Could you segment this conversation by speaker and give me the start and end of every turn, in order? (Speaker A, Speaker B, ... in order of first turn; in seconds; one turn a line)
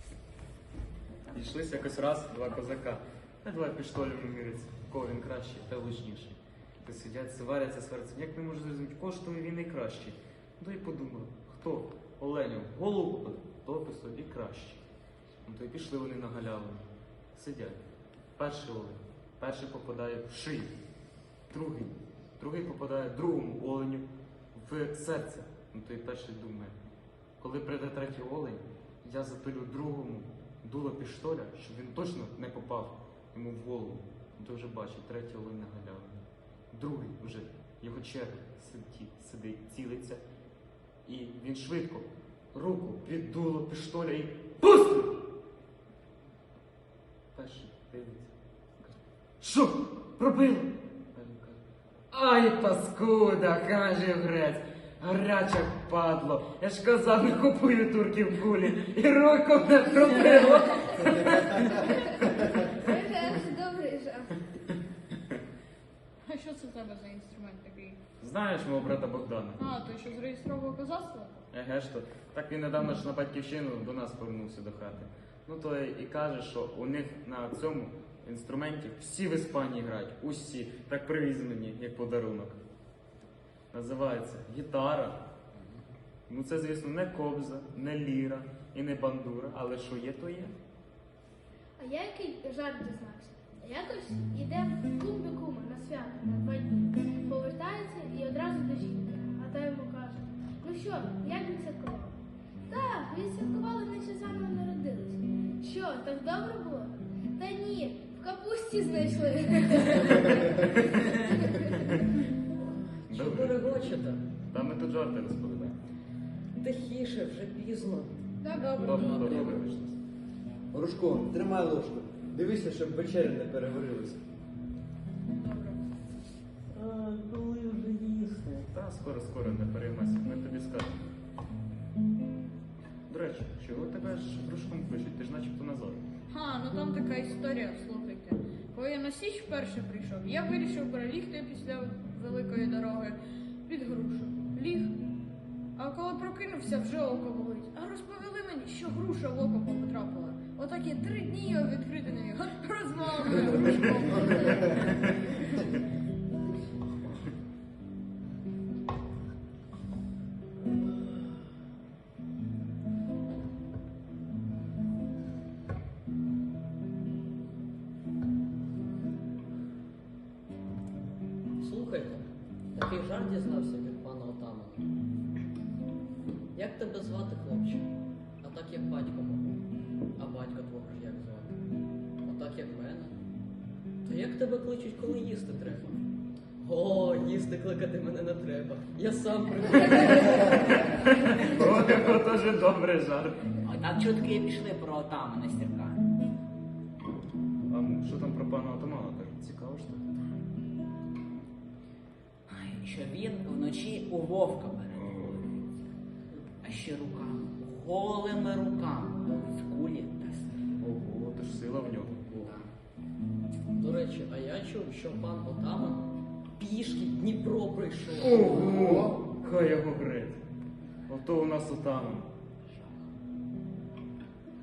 Speaker A: 1.3-14.8
Speaker A: 15.4-17.8
Speaker A: 18.4-20.7
Speaker A: 21.5-26.8
Speaker A: 27.4-36.2
Speaker A: 36.7-40.2
Speaker A: 41.0-45.2
Speaker A: 47.3-51.6
Speaker A: 52.1-62.4
Speaker B: 61.8-64.4
Speaker C: 66.2-68.0
Speaker A: 68.2-69.6
Speaker C: 69.6-71.4
Speaker A: 71.5-82.6
Speaker A: 83.7-85.2
Speaker A: 86.3-90.5
Speaker B: 91.8-102.1
Speaker B: 102.7-111.9
Speaker D: 112.6-114.2
Speaker A: 113.1-113.8
Speaker A: 114.5-115.8
Speaker D: 116.5-118.2
Speaker B: 118.4-119.4
Speaker D: 118.8-119.6
Speaker A: 118.8-120.0
Speaker E: 120.7-124.2
Speaker C: 125.3-125.8
Speaker D: 126.8-128.5
Speaker A: 128.5-131.0
Speaker A: 133.1-136.0
Speaker C: 136.3-144.9
Speaker C: 145.8-155.7
Speaker D: 171.6-174.9
Speaker D: 176.5-177.9
Speaker D: 178.4-179.6
Speaker D: 180.2-181.6
Speaker D: 182.2-183.2
Speaker D: 184.0-186.0
Speaker D: 186.6-190.9
Speaker A: 190.8-193.6
Speaker F: 193.6-196.0
Speaker A: 197.7-200.1
Speaker F: 202.5-205.2
Speaker A: 204.9-205.4
Speaker F: 206.6-210.6
Speaker A: 210.8-212.6
Speaker D: 213.7-216.0
Speaker D: 216.6-218.9
Speaker A: 218.2-220.4
Speaker A: 221.1-222.3